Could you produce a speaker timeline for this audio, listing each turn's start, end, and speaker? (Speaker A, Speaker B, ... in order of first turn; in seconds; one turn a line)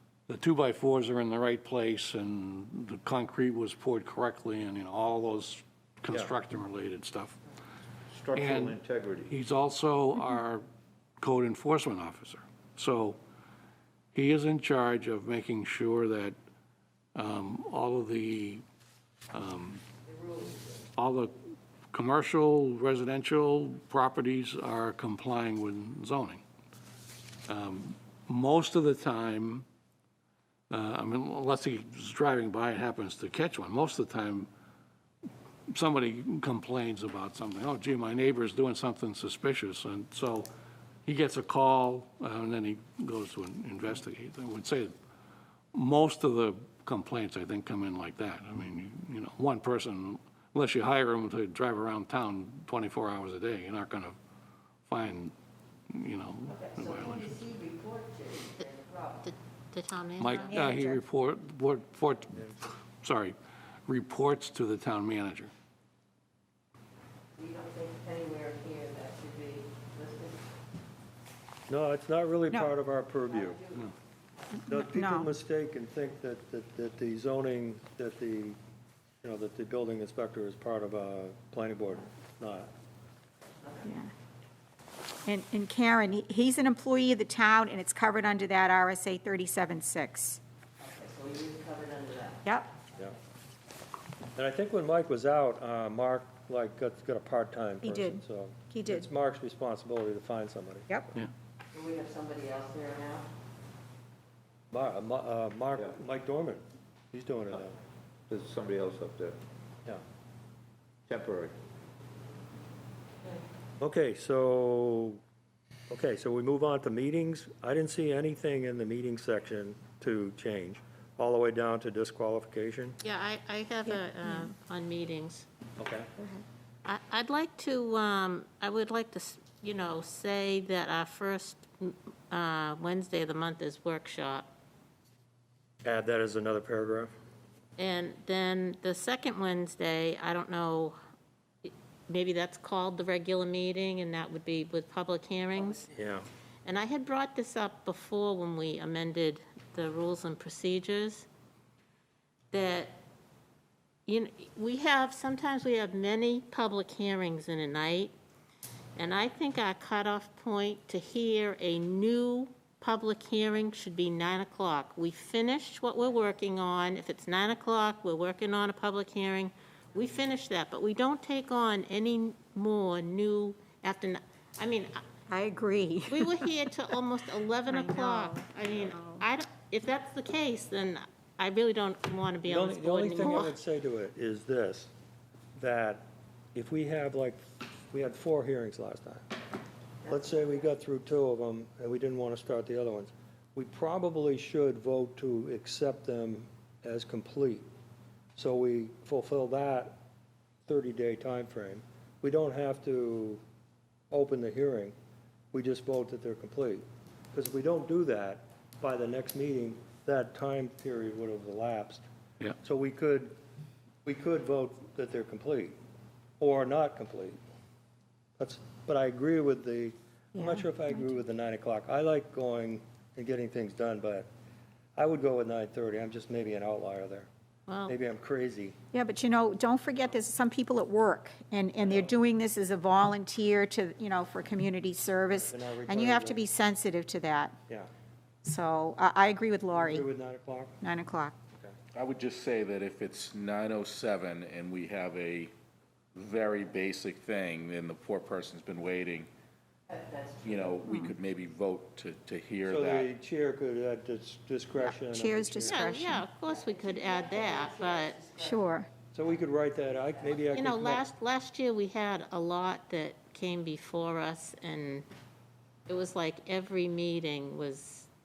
Speaker A: 0.3-7.4
Speaker B: 8.1-9.3
Speaker A: 8.3-10.6
Speaker A: 11.2-13.2
Speaker A: 14.1-16.3
Speaker A: 17.1-18.6
Speaker A: 19.3-19.8
Speaker A: 20.9-21.3
Speaker A: 21.9-26.4
Speaker A: 27.5-29.6
Speaker A: 30.7-34.5
Speaker A: 35.7-40.5
Speaker A: 41.0-44.9
Speaker A: 45.7-54.1
Speaker A: 54.9-55.3
Speaker A: 55.9-57.4
Speaker C: 57.1-59.0
Speaker D: 59.2-60.4
Speaker A: 60.2-63.4
Speaker E: 60.3-61.0
Speaker A: 63.9-65.5
Speaker C: 67.4-70.3
Speaker F: 71.7-73.6
Speaker E: 74.5-75.3
Speaker F: 74.7-78.6
Speaker F: 79.2-82.7
Speaker E: 83.8-84.1
Speaker E: 85.2-90.4
Speaker C: 90.9-92.4
Speaker E: 92.4-92.7
Speaker F: 94.3-101.2
Speaker E: 97.8-99.0
Speaker C: 101.7-103.2
Speaker F: 104.7-107.7
Speaker B: 108.3-109.4
Speaker B: 111.1-111.5
Speaker F: 113.8-115.2
Speaker F: 115.9-123.0
Speaker D: 123.0-125.5
Speaker E: 123.9-124.5
Speaker F: 125.8-126.1
Speaker D: 126.8-134.5
Speaker F: 135.8-137.1
Speaker D: 137.8-141.0
Speaker D: 141.6-145.9
Speaker F: 145.9-146.2
Speaker D: 146.6-151.2
Speaker D: 152.5-153.0
Speaker D: 154.1-158.1
Speaker D: 158.9-175.0
Speaker E: 175.3-176.5
Speaker D: 176.1-183.6
Speaker E: 177.7-179.2
Speaker F: 182.4-184.9
Speaker F: 185.6-189.2
Speaker F: 190.0-197.7
Speaker F: 198.3-200.0
Speaker F: 200.7-203.4
Speaker F: 204.1-204.9
Speaker F: 205.5-212.0
Speaker F: 212.6-213.3
Speaker F: 214.0-215.8
Speaker F: 216.4-217.4
Speaker F: 218.4-224.3
Speaker E: 220.3-220.7
Speaker F: 224.9-227.3
Speaker D: 227.7-227.9
Speaker F: 227.9-228.8
Speaker E: 228.9-237.6
Speaker F: 231.8-232.1
Speaker F: 235.3-236.4
Speaker E: 238.4-240.1
Speaker F: 239.7-240.8
Speaker E: 240.8-241.3
Speaker G: 241.9-245.5
Speaker G: 246.1-249.3
Speaker C: 249.9-250.5
Speaker G: 250.4-253.1
Speaker E: 250.8-251.2
Speaker F: 252.7-255.8
Speaker E: 254.8-256.2
Speaker D: 255.7-258.3
Speaker E: 258.3-258.9
Speaker F: 259.1-261.0
Speaker D: 260.5-265.1
Speaker D: 265.9-268.1